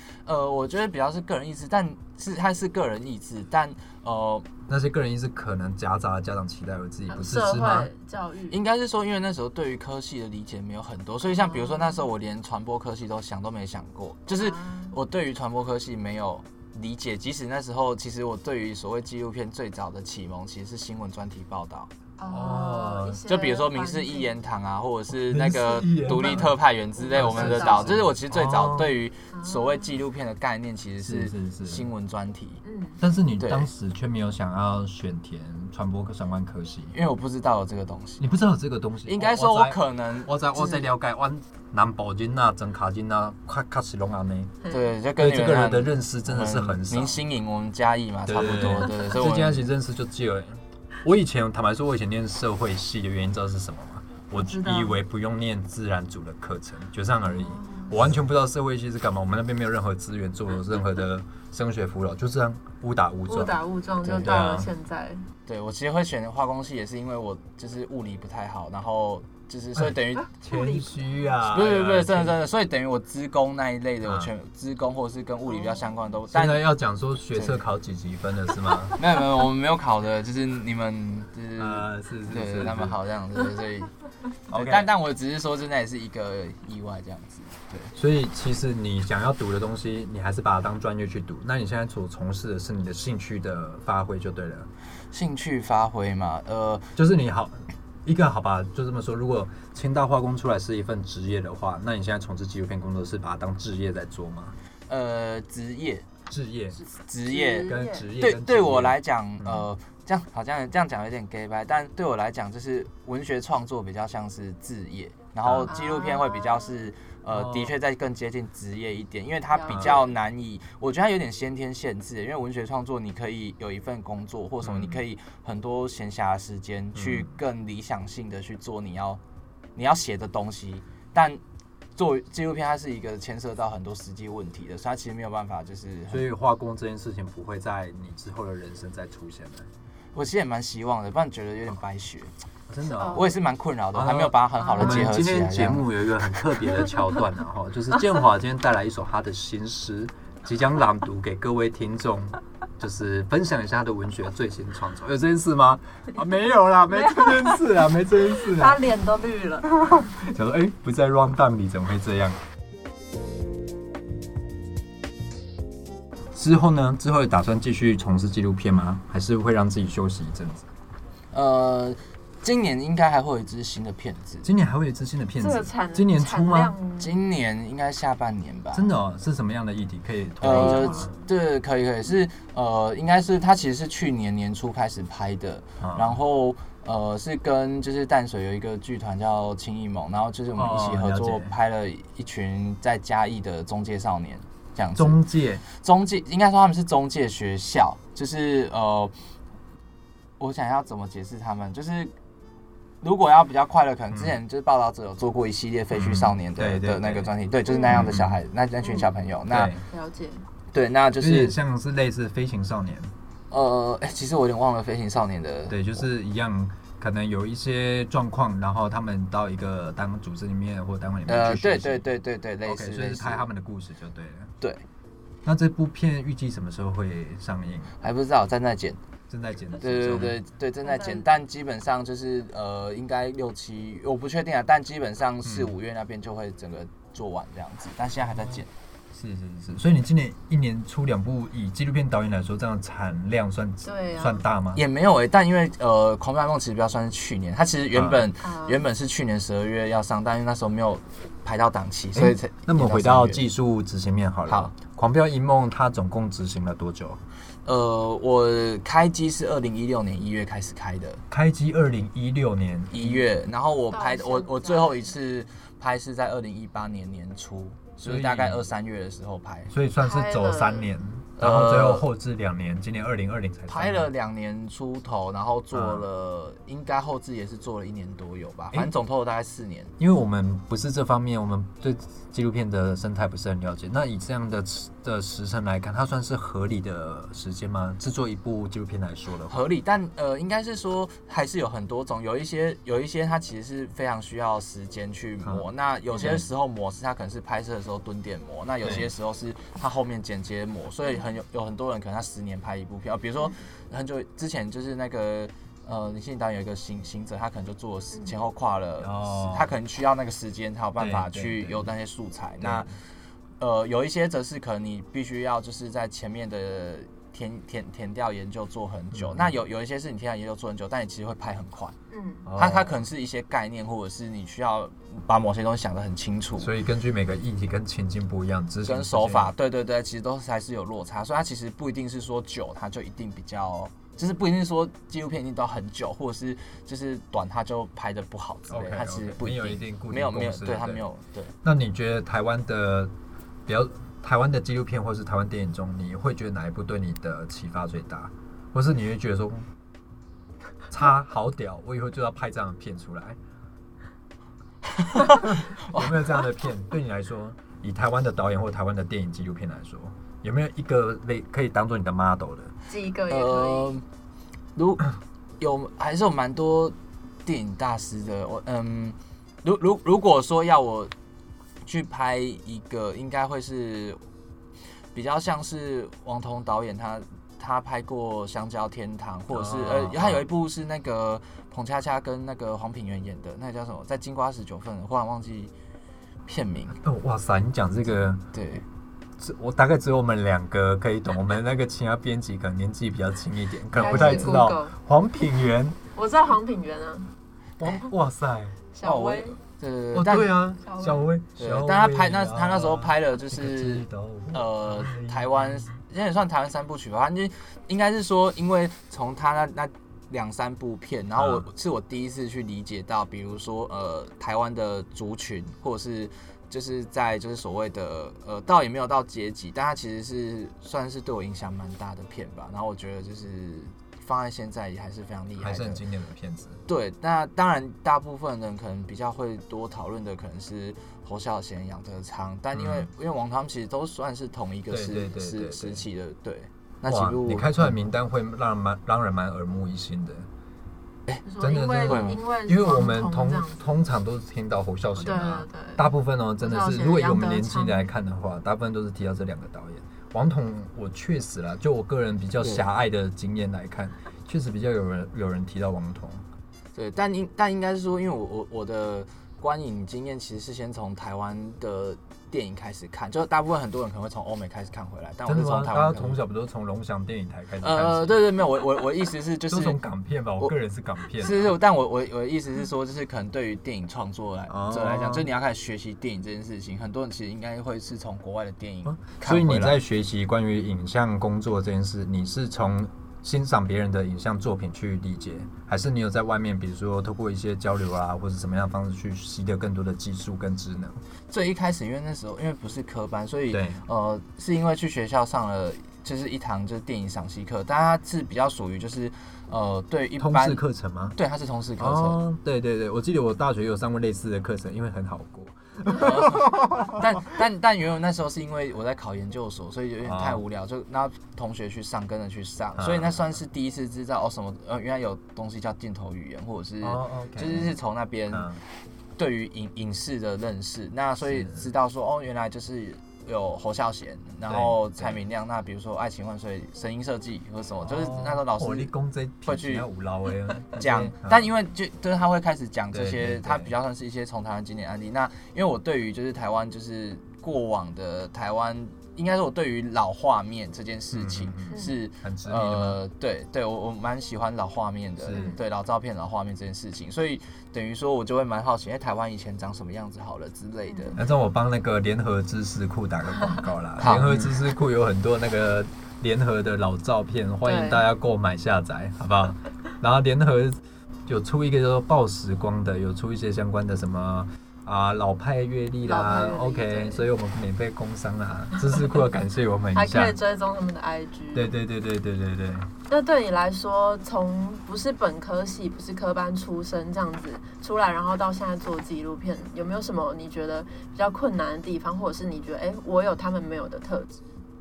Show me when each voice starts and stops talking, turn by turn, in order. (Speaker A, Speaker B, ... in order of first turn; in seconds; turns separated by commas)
Speaker A: 0.3-4.5, Speaker B: 4.7-7.9, Speaker C: 7.1-8.6, Speaker A: 8.5-21.9, Speaker C: 11.3-12.0, Speaker C: 14.3-14.9, Speaker C: 22.2-24.3, Speaker B: 22.3-23.2, Speaker A: 23.3-32.6, Speaker B: 25.1-26.6, Speaker C: 27.0-28.0, Speaker B: 27.1-29.0, Speaker C: 29.3-29.9, Speaker B: 31.0-31.9, Speaker C: 32.6-33.0, Speaker B: 33.0-37.0, Speaker A: 33.4-33.7, Speaker A: 36.9-38.3, Speaker B: 38.2-44.5, Speaker A: 39.1-40.9, Speaker C: 44.6-44.9, Speaker A: 44.7-49.7, Speaker B: 45.2-47.2, Speaker B: 48.3-63.6, Speaker C: 48.6-49.0, Speaker C: 54.3-55.0, Speaker C: 57.3-58.0, Speaker C: 63.3-65.2, Speaker A: 64.0-64.4, Speaker B: 64.2-64.7, Speaker A: 65.5-70.3, Speaker B: 69.8-72.4, Speaker C: 70.4-71.3, Speaker A: 71.5-76.7, Speaker B: 74.0-74.3, Speaker C: 75.7-75.9, Speaker B: 76.3-79.0, Speaker A: 77.3-77.6, Speaker A: 79.0-83.9, Speaker B: 81.6-83.0, Speaker B: 84.5-84.9, Speaker A: 84.5-87.9, Speaker B: 88.0-94.7, Speaker A: 95.1-96.9, Speaker B: 97.0-104.6, Speaker A: 104.9-106.1, Speaker B: 106.3-106.8, Speaker A: 107.0-129.2, Speaker C: 107.2-108.1, Speaker B: 107.7-109.7, Speaker B: 115.4-115.7, Speaker C: 115.7-116.7, Speaker B: 117.3-117.7, Speaker C: 119.5-120.1, Speaker B: 119.7-120.0, Speaker B: 124.6-125.0, Speaker B: 127.0-127.3, Speaker A: 129.8-131.4, Speaker A: 132.0-136.2, Speaker B: 136.1-139.7, Speaker A: 140.1-142.3, Speaker B: 142.7-143.3, Speaker C: 142.8-143.4, Speaker A: 143.1-145.9, Speaker B: 143.9-158.9, Speaker C: 144.6-145.1, Speaker C: 156.9-160.1, Speaker B: 159.6-162.4, Speaker B: 166.3-170.7, Speaker A: 171.3-174.5, Speaker B: 174.4-176.8, Speaker C: 175.4-177.2, Speaker A: 177.0-178.9, Speaker B: 178.7-181.1, Speaker A: 180.4-199.1, Speaker C: 180.4-181.1, Speaker B: 185.8-186.2, Speaker B: 190.6-191.5, Speaker B: 195.0-195.6, Speaker A: 200.4-202.1, Speaker A: 203.0-209.7, Speaker B: 205.9-207.3, Speaker C: 207.7-208.0, Speaker B: 207.9-208.4, Speaker C: 208.8-209.1, Speaker B: 209.5-209.8, Speaker C: 209.9-210.4, Speaker A: 210.7-211.6, Speaker B: 211.2-213.1, Speaker A: 213.5-215.8, Speaker B: 215.7-222.0, Speaker A: 221.3-223.5, Speaker B: 222.6-224.5, Speaker B: 225.4-227.9, Speaker A: 228.0-229.0, Speaker B: 229.3-230.4, Speaker A: 229.8-238.7, Speaker C: 230.8-231.3, Speaker B: 235.4-235.7, Speaker B: 238.2-244.8, Speaker C: 243.8-244.4, Speaker A: 244.8-253.4, Speaker B: 247.9-248.2, Speaker C: 248.4-248.9, Speaker B: 252.2-257.2, Speaker A: 254.5-254.7, Speaker A: 257.6-261.2, Speaker B: 261.3-263.2, Speaker A: 262.9-269.7, Speaker C: 263.9-265.1, Speaker B: 268.0-268.7, Speaker B: 269.7-274.1, Speaker C: 270.0-270.9, Speaker A: 271.4-272.1, Speaker A: 273.7-279.9, Speaker B: 275.7-276.0, Speaker B: 280.0-289.6, Speaker A: 289.5-312.9, Speaker B: 295.4-295.7, Speaker C: 296.1-296.4, Speaker B: 298.8-299.1, Speaker B: 309.0-309.7, Speaker B: 311.0-311.9, Speaker B: 312.6-312.9, Speaker A: 313.6-321.9, Speaker B: 319.1-319.5, Speaker C: 322.1-322.5, Speaker B: 322.4-323.0, Speaker A: 322.6-326.7, Speaker B: 326.6-329.5, Speaker A: 328.9-341.5, Speaker B: 338.7-341.0, Speaker B: 341.6-343.1, Speaker B: 343.7-349.7, Speaker B: 350.9-353.4, Speaker A: 355.0-356.1, Speaker B: 355.3-362.7, Speaker C: 362.9-363.9, Speaker A: 363.3-364.0, Speaker A: 364.8-365.1, Speaker A: 365.6-371.1, Speaker A: 371.9-374.2, Speaker A: 375.1-385.7, Speaker B: 379.5-380.5, Speaker A: 386.5-387.0, Speaker B: 387.0-388.4, Speaker A: 388.5-388.9, Speaker B: 389.4-396.0, Speaker C: 393.9-394.9, Speaker A: 394.0-394.6, Speaker C: 396.1-397.3, Speaker B: 397.8-398.8, Speaker C: 398.9-399.6, Speaker A: 399.0-400.6, Speaker B: 400.1-405.9, Speaker C: 400.8-401.3, Speaker A: 401.6-426.0, Speaker B: 411.4-411.7, Speaker B: 425.6-426.8, Speaker A: 426.9-438.0, Speaker B: 432.7-433.1, Speaker B: 434.9-436.0, Speaker B: 437.1-440.5, Speaker C: 441.4-443.8, Speaker B: 441.6-456.4, Speaker A: 442.1-442.4, Speaker C: 445.2-448.1, Speaker A: 456.9-466.4, Speaker B: 465.4-468.4, Speaker A: 467.8-470.0, Speaker B: 469.7-471.7, Speaker A: 471.4-480.0, Speaker B: 474.7-475.5, Speaker B: 479.1-491.2, Speaker A: 491.5-500.8, Speaker B: 493.7-494.0, Speaker B: 500.4-501.4, Speaker A: 501.4-502.4, Speaker B: 502.0-507.1, Speaker A: 506.1-518.7, Speaker B: 510.2-510.6, Speaker B: 513.0-513.4, Speaker B: 517.0-518.0, Speaker B: 518.5-518.8, Speaker A: 519.4-529.1, Speaker B: 521.4-521.9, Speaker B: 524.7-525.4, Speaker B: 528.0-531.7, Speaker A: 529.6-530.1, Speaker A: 530.9-551.4, Speaker B: 533.1-533.9, Speaker B: 541.3-543.2, Speaker B: 545.4-545.7, Speaker C: 545.5-545.8, Speaker C: 551.1-551.4, Speaker B: 551.4-570.6, Speaker A: 554.2-554.7, Speaker C: 557.8-558.2, Speaker C: 566.2-567.5, Speaker C: 570.1-572.0, Speaker B: 571.7-573.1, Speaker C: 573.3-584.6